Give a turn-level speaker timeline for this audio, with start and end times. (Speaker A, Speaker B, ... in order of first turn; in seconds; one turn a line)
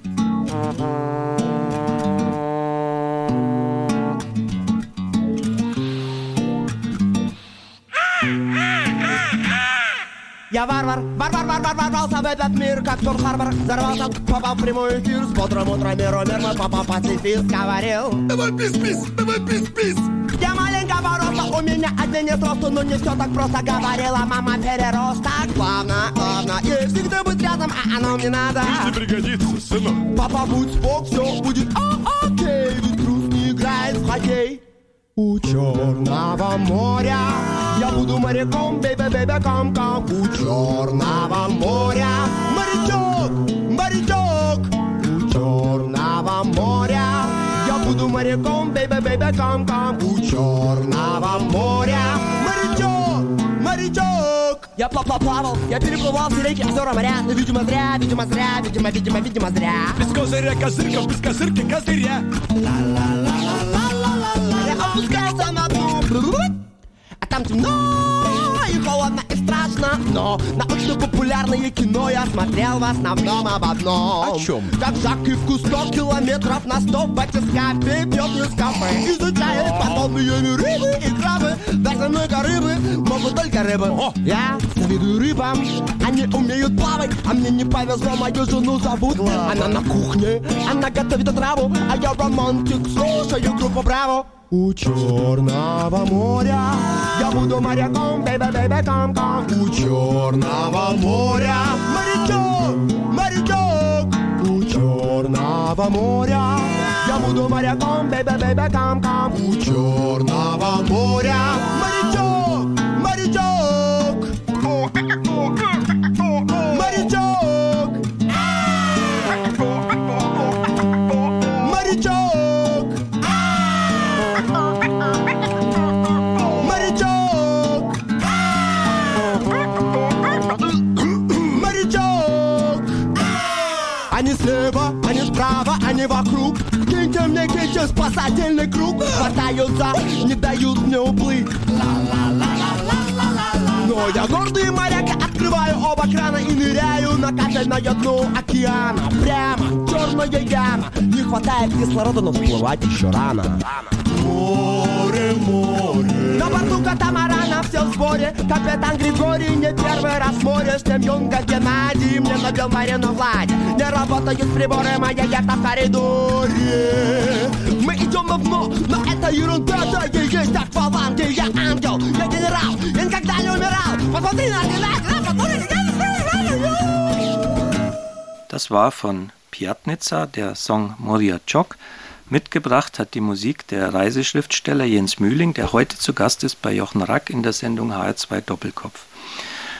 Speaker A: 10.5-18.3
Speaker B: 18.3-20.1
Speaker A: 20.1-29.0
Speaker B: 28.6-30.0
Speaker A: 30.1-34.6
Speaker A: 35.1-60.0
Speaker B: 60.0-62.2
Speaker A: 62.9-66.6
Speaker A: 67.2-114.5
Speaker B: 74.4-74.7
Speaker A: 116.5-118.2
Speaker A: 121.6-123.2
Speaker A: 123.7-124.2
Speaker A: 126.5-128.0
Speaker A: 131.3-133.1
Speaker A: 134.1-176.9
Speaker C: 178.5-189.1